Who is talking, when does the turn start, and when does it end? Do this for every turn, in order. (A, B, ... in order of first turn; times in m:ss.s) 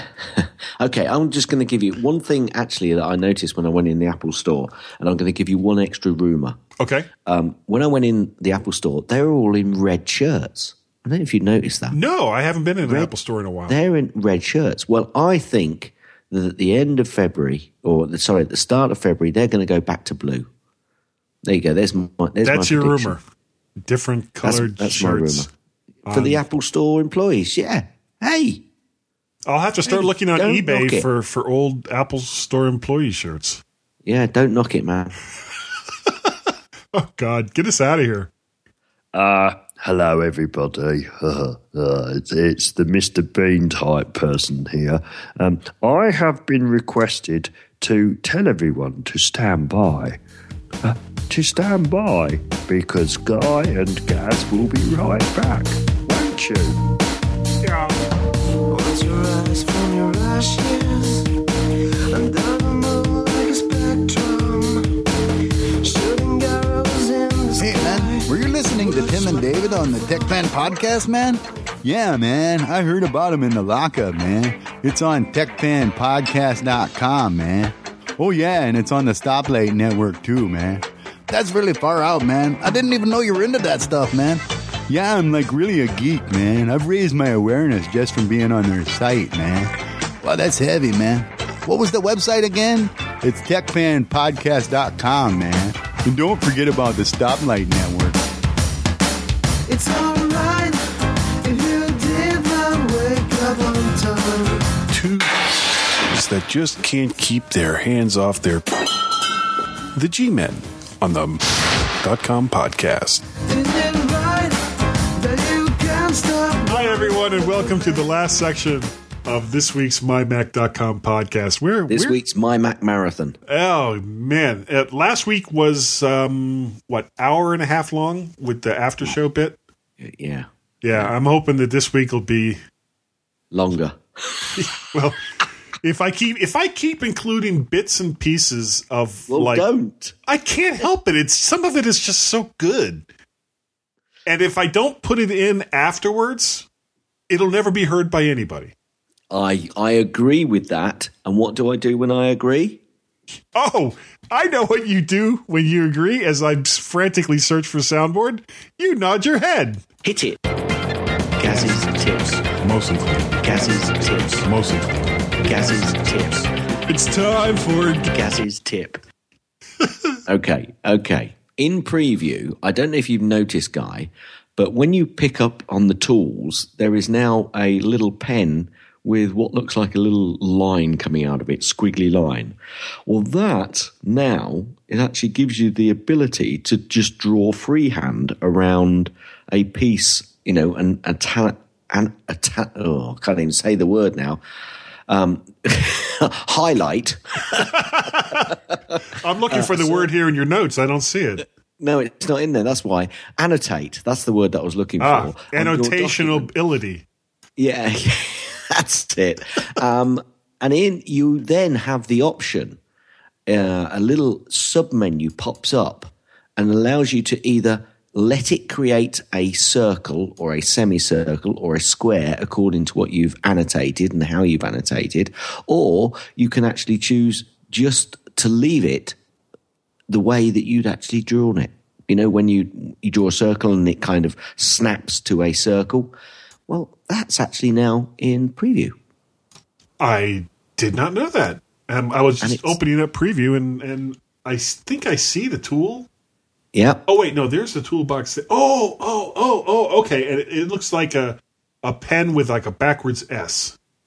0:00.2-0:06.6 A
0:06.8-0:07.1 B
0:07.2-0:12.0 A
0:11.9-0:13.8 B
0:12.8-0:13.1 A
0:13.7-0:20.5 A
0:21.4-0:23.2 A
0:22.4-0:23.2 B
0:23.8-0:25.5 B
0:24.4-0:25.5 A
0:26.1-0:26.4 B
0:26.1-0:28.6 A
0:29.4-0:33.6 B
0:29.8-0:31.1 A
0:34.0-0:35.2 A
0:36.0-0:36.3 B
0:36.9-0:38.3 B
0:39.1-0:50.2 C
0:50.8-0:56.8 C
0:58.7-1:01.3 D
1:02.1-1:05.0 D
1:05.8-1:10.8 D
1:07.6-1:29.7 E
1:30.2-1:38.1 E
1:39.7-1:40.9 D
1:41.4-1:44.8 D
1:44.9-1:45.4 B
1:46.0-1:48.7 B
1:49.9-1:53.2 B
1:53.4-1:54.6 D
1:55.2-1:58.2 D
1:56.7-2:02.2 B
2:01.9-2:03.4 A
2:03.4-2:09.6 B
2:10.0-2:11.1 A
2:10.8-2:12.6 B
2:13.5-2:14.5 A
2:14.5-2:15.2 B
2:15.8-2:19.7 B
2:19.3-2:20.1 A
2:20.2-2:23.0 B
2:24.2-2:26.6 B
2:27.3-2:28.7 B
2:29.3-2:32.8 A
2:33.4-2:39.8 B
2:40.0-2:40.4 A
2:41.4-2:42.4 A
2:42.6-2:45.9 B
2:43.4-2:44.4 A
2:45.4-2:46.9 A
2:46.9-2:48.1 B
2:48.1-2:49.0 A
2:50.3-3:02.5 A
3:03.1-3:14.4 A
3:15.1-3:17.7 A
3:17.5-3:18.5 B
3:18.9-3:20.1 A
3:19.2-3:21.4 B
3:21.8-3:26.5 A
3:25.0-3:27.0 B
3:27.6-3:32.8 A
3:33.5-3:49.2 A
3:50.1-3:56.1 A
3:56.7-3:59.0 A
4:00.0-4:06.1 B
4:02.4-4:02.8 A
4:06.7-4:07.0 A
4:07.0-4:13.7 B